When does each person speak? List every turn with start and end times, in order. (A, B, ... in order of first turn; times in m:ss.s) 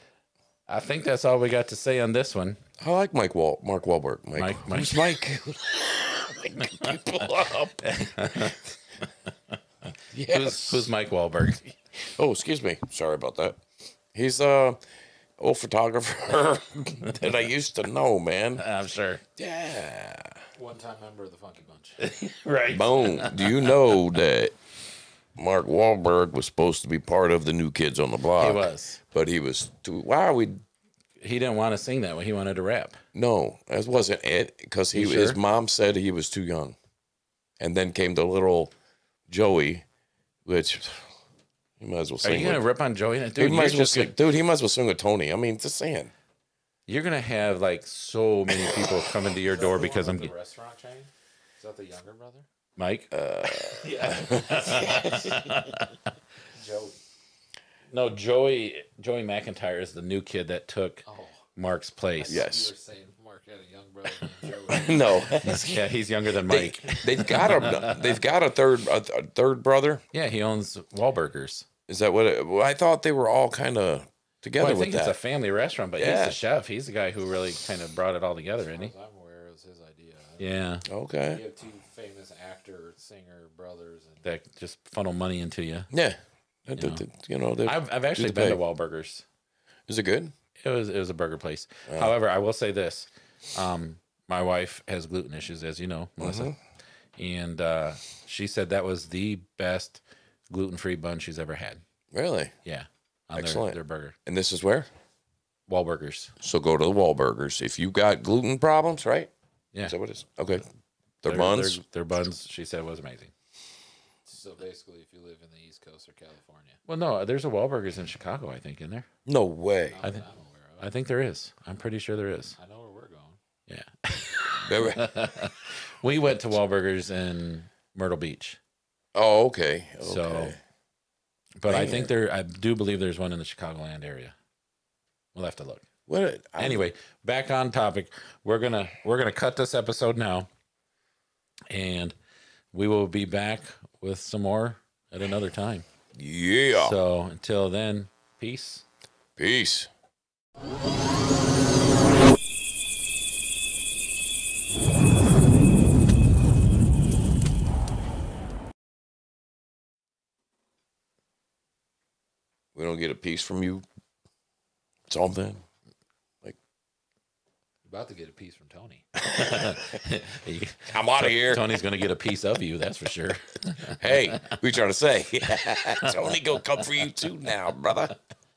0:00.7-0:02.6 A
0:02.8-0:08.6 B
0:04.4-0:05.0 A
0:07.8-0:08.6 A
0:10.1-0:10.9 B
0:10.3-0:11.7 A
0:12.0-0:13.6 B
0:14.1-0:14.8 B
0:15.4-0:18.6 B
0:18.6-0:19.2 A
0:19.4-0:20.4 B
0:20.6-0:22.0 C
0:22.0-0:23.8 A
0:22.7-0:24.6 B
0:25.4-0:30.6 B
0:28.4-0:29.0 A
0:31.2-0:33.0 A
0:33.1-0:36.8 B
0:34.9-0:35.4 A
0:37.6-0:38.7 B
0:39.3-0:39.8 B
0:40.4-0:41.1 B
0:41.8-0:42.6 B
0:42.2-0:44.1 A
0:43.4-0:46.1 B
0:46.9-0:50.3 A
0:49.4-0:52.5 C
0:52.8-0:53.1 A
0:53.1-0:55.6 B
0:53.6-0:55.9 A
0:53.9-0:54.2 C
0:56.5-0:57.0 C
0:57.9-1:01.0 A
1:01.0-1:01.5 C
1:01.6-1:02.4 A
1:02.2-1:05.5 C
1:02.3-1:02.7 B
1:04.7-1:05.9 B
1:05.4-1:08.1 A
1:06.5-1:10.0 B
1:10.1-1:11.7 A
1:11.9-1:15.2 B
1:14.6-1:18.9 A
1:16.0-1:16.4 B
1:18.7-1:20.5 C
1:20.4-1:20.9 A
1:20.9-1:21.4 B
1:21.2-1:24.3 C
1:24.2-1:25.9 A
1:25.9-1:28.6 B
1:26.8-1:27.0 A
1:27.6-1:29.2 A
1:29.9-1:30.3 B
1:30.6-1:36.6 A
1:31.9-1:32.1 B
1:36.2-1:36.6 B
1:37.2-1:41.8 A
1:42.1-1:42.5 B
1:42.6-1:44.2 A
1:43.4-1:44.9 B
1:45.7-1:46.3 A
1:46.4-1:49.3 B
1:49.8-1:50.6 B
1:51.2-1:51.8 B
1:51.3-1:53.3 A
1:54.3-1:56.8 C
1:56.9-1:59.1 A
1:59.3-2:00.0 B
1:59.9-2:00.9 C
2:00.8-2:02.6 A
2:02.6-2:03.4 C
2:03.7-2:08.6 A
2:04.6-2:05.1 B
2:09.1-2:10.6 B
2:10.0-2:10.6 A
2:11.6-2:14.4 A
2:11.7-2:12.1 B
2:15.4-2:15.9 A
2:16.1-2:16.9 B
2:16.6-2:20.5 A
2:21.7-2:22.2 A
2:22.7-2:25.8 A
2:26.1-2:27.0 B
2:26.8-2:28.8 A
2:29.4-2:29.9 B
2:42.8-2:43.8 B
2:45.1-2:45.6 B
2:47.8-2:49.1 C
2:49.3-2:50.0 B
2:49.3-2:54.5 A
2:50.9-2:51.8 B
2:54.0-2:58.2 B